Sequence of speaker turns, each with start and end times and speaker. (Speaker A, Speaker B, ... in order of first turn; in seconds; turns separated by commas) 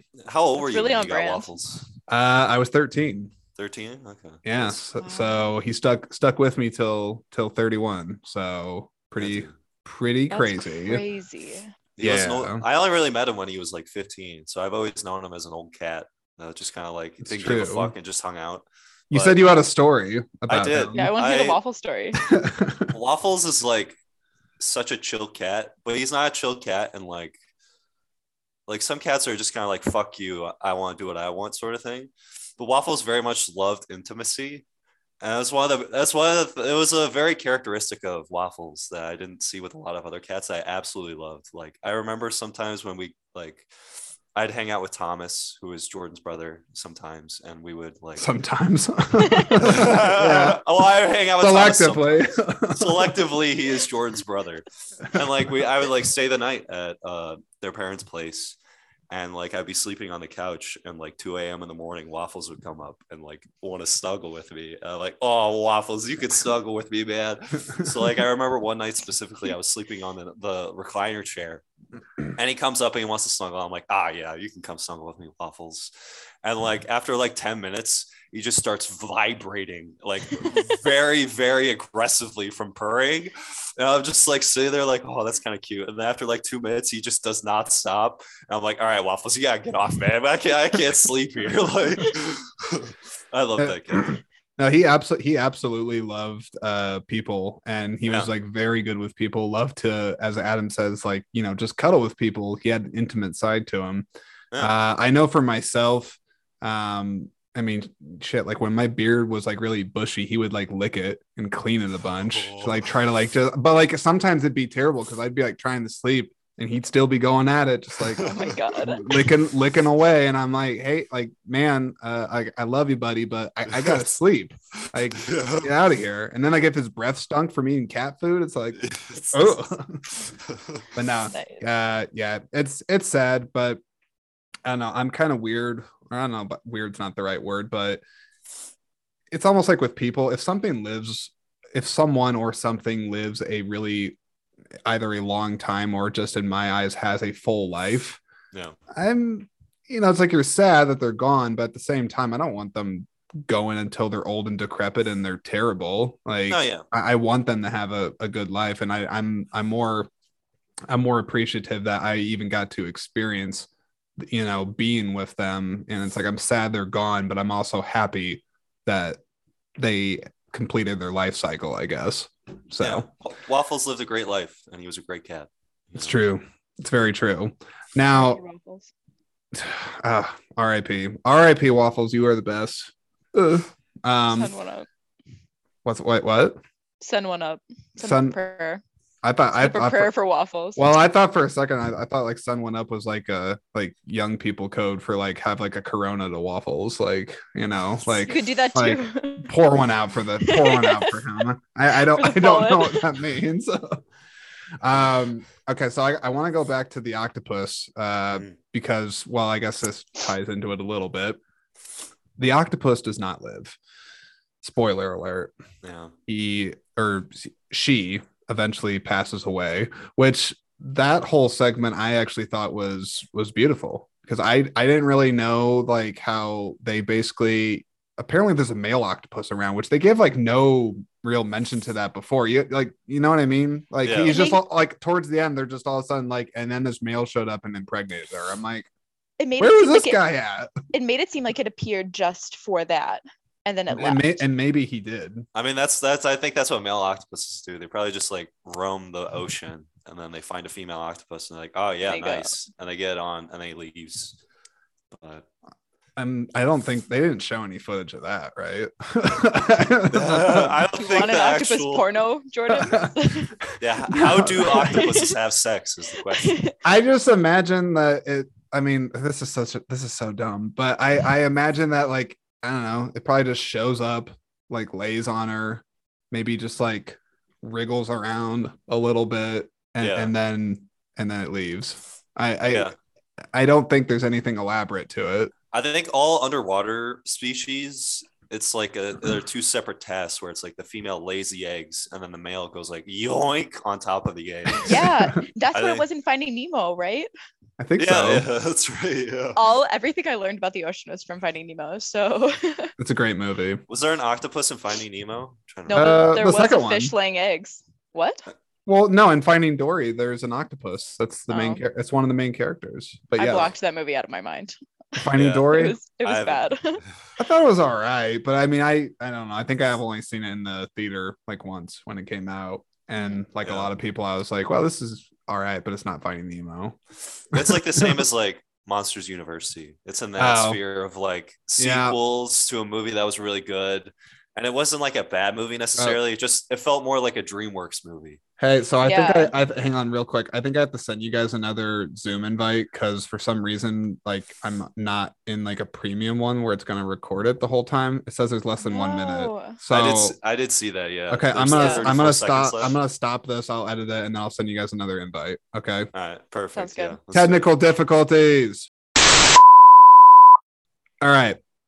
Speaker A: 0.2-1.9, Speaker B: 0.6-1.5, Speaker C: 2.1-3.3, Speaker A: 3.6-4.8, Speaker C: 4.5-11.0, Speaker B: 5.0-5.4, Speaker A: 9.2-9.6, Speaker B: 10.3-11.7, Speaker A: 12.0-19.4, Speaker C: 12.0-12.7, Speaker C: 17.2-17.9, Speaker C: 19.1-21.1, Speaker A: 20.5-21.6, Speaker B: 20.9-22.2, Speaker C: 22.2-22.9, Speaker A: 22.9-24.0, Speaker A: 24.6-27.4, Speaker A: 28.7-34.6, Speaker A: 35.2-43.7, Speaker A: 44.4-48.3, Speaker C: 48.2-50.6, Speaker B: 49.2-49.6, Speaker A: 49.6-58.5, Speaker C: 51.4-53.2, Speaker A: 59.1-71.6, Speaker A: 72.3-75.9, Speaker A: 76.4-94.1, Speaker C: 93.6-104.1, Speaker C: 104.6-130.1, Speaker A: 112.3-112.8, Speaker A: 118.2-118.5, Speaker B: 118.3-119.0, Speaker A: 125.2-125.7, Speaker A: 128.8-129.7, Speaker A: 130.5-130.8, Speaker C: 130.9-133.8, Speaker B: 131.3-131.6, Speaker C: 134.7-138.0, Speaker C: 139.3-144.2, Speaker C: 144.9-148.2, Speaker A: 148.5-148.8, Speaker C: 148.9-160.1, Speaker A: 156.5-156.8, Speaker C: 160.9-169.2, Speaker C: 169.8-173.1, Speaker A: 172.8-176.2, Speaker C: 176.0-178.4, Speaker B: 178.1-178.9, Speaker C: 179.5-184.5, Speaker B: 184.3-184.9, Speaker C: 185.8-186.6, Speaker B: 187.0-188.8, Speaker C: 188.0-188.4, Speaker C: 189.2-190.1, Speaker B: 189.6-190.8, Speaker C: 190.8-204.0, Speaker B: 198.3-199.5, Speaker B: 200.4-201.1, Speaker B: 202.0-203.1, Speaker C: 204.8-211.4, Speaker C: 212.4-213.8, Speaker C: 214.6-215.5, Speaker A: 215.8-216.1, Speaker C: 216.3-238.9, Speaker A: 234.0-234.4, Speaker B: 234.3-234.6, Speaker B: 239.4-240.2, Speaker C: 239.6-240.7, Speaker B: 240.9-244.4, Speaker C: 243.9-245.5, Speaker A: 245.5-254.4, Speaker B: 252.1-252.5, Speaker A: 255.1-255.4, Speaker C: 256.2-260.9, Speaker A: 260.1-262.1, Speaker B: 261.0-263.6, Speaker C: 262.8-265.1, Speaker A: 263.8-266.6, Speaker B: 264.8-265.3, Speaker B: 266.3-266.8, Speaker C: 266.9-282.9, Speaker A: 280.0-280.3, Speaker A: 282.7-282.9, Speaker C: 283.5-285.5, Speaker A: 285.7-295.0, Speaker B: 294.8-297.3, Speaker A: 295.7-296.1, Speaker C: 297.8-298.5, Speaker A: 298.0-299.6, Speaker B: 299.6-302.9, Speaker C: 303.0-303.8, Speaker A: 303.9-306.3, Speaker B: 305.9-308.5, Speaker C: 305.9-307.1, Speaker C: 308.9-313.7, Speaker B: 311.5-311.8, Speaker B: 313.4-315.2, Speaker C: 315.2-316.0, Speaker A: 315.4-315.7, Speaker B: 315.7-317.0, Speaker A: 316.2-316.7, Speaker C: 317.4-327.0, Speaker B: 323.2-323.4, Speaker A: 323.6-323.9, Speaker C: 327.5-328.2, Speaker A: 327.5-338.4, Speaker C: 330.4-330.8, Speaker C: 331.8-332.2, Speaker C: 338.6-350.4, Speaker B: 339.1-339.5, Speaker B: 348.8-349.8, Speaker A: 349.9-353.0, Speaker C: 351.3-356.1, Speaker B: 351.7-352.1, Speaker A: 356.1-357.7, Speaker B: 356.7-357.2, Speaker C: 357.3-358.9, Speaker C: 361.2-361.6